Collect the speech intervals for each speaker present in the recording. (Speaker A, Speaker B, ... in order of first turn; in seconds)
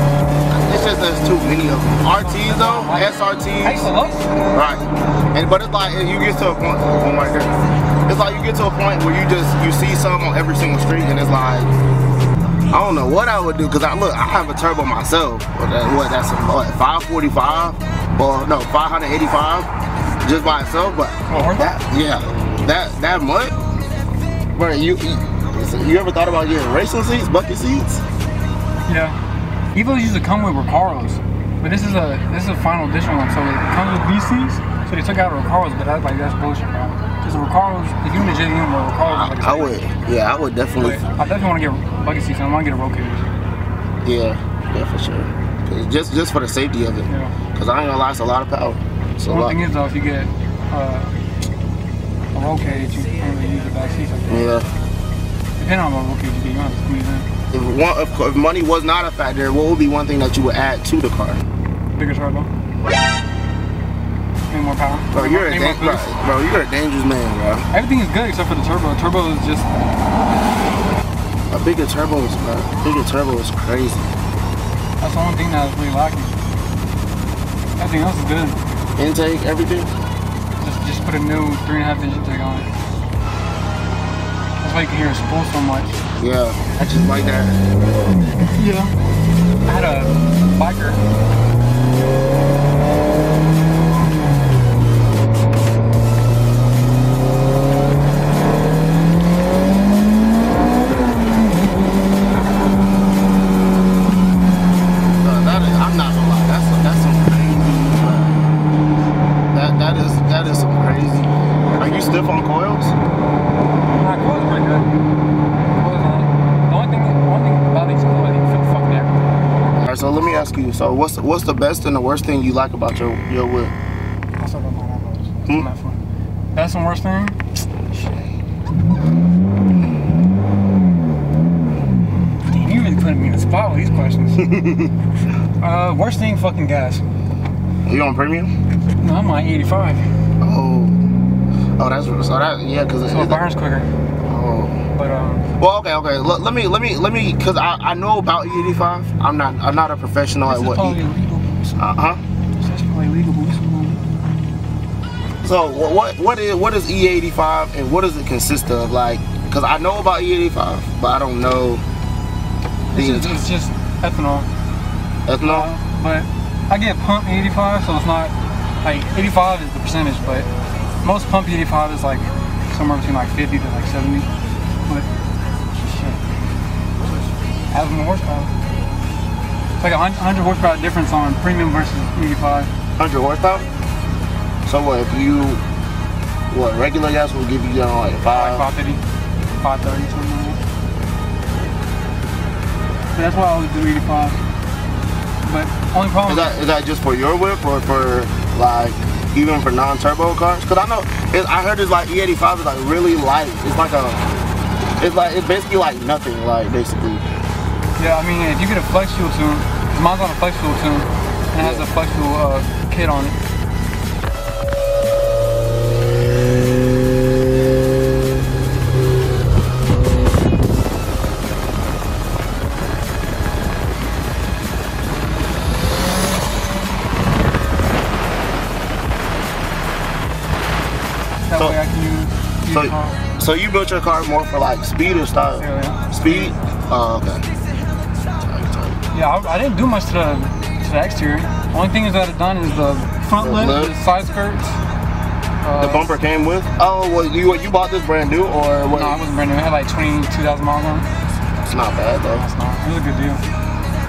Speaker A: 0.5-3.9, 4.5-7.5, 8.1-11.7, 12.7-19.7, 20.2-23.5, 24.6-28.0, 39.0-41.0, 44.0-49.6, 54.3-54.7, 57.5-61.4, 65.1-67.7, 71.5-74.1, 79.0-79.9, 86.2-87.6, 105.2-108.4, 109.5-112.9, 119.8-123.7, 134.4-134.9, 137.8-138.5, 140.4-141.0, 141.8-143.4, 144.2-144.8, 145.6-151.0, 151.8-152.2, 155.4-161.8, 162.9-163.4, 165.3-165.7, 183.0-183.7, 184.7-185.6, 186.5-188.6, 196.2-204.2, 205.0-207.2, 211.6-211.8, 232.7-237.5, 238.4-239.0, 243.4-243.9, 245.8-249.2, 251.6-252.4
Speaker B: 2.1-4.4, 21.3-21.7, 28.9-29.2, 29.7-39.8, 40.8-43.2, 47.1-47.4, 49.3-51.1, 52.3-54.5, 55.6-57.3, 62.0-62.5, 64.5-66.1, 67.7-69.7, 75.0-76.3, 77.8-78.6, 80.6-82.7, 84.6-86.0, 88.5-88.9, 89.7-91.0, 111.7-112.3, 114.0-114.9, 115.7-119.4, 124.4-126.0, 126.5-128.3, 132.5-134.5, 135.6-137.0, 139.0-140.1, 143.1-143.9, 144.9-145.4, 150.5-151.8, 152.6-154.0, 162.9-164.5, 165.4-170.5, 171.0-174.3, 175.8-176.2, 177.7-178.5, 179.8-182.7, 188.3-189.0, 189.6-190.6, 193.1-194.4, 195.4-196.6, 208.0-213.4, 231.5-233.2, 235.6-236.5, 239.1-244.8, 245.6-246.1, 248.9-251.1, 252.3-253.4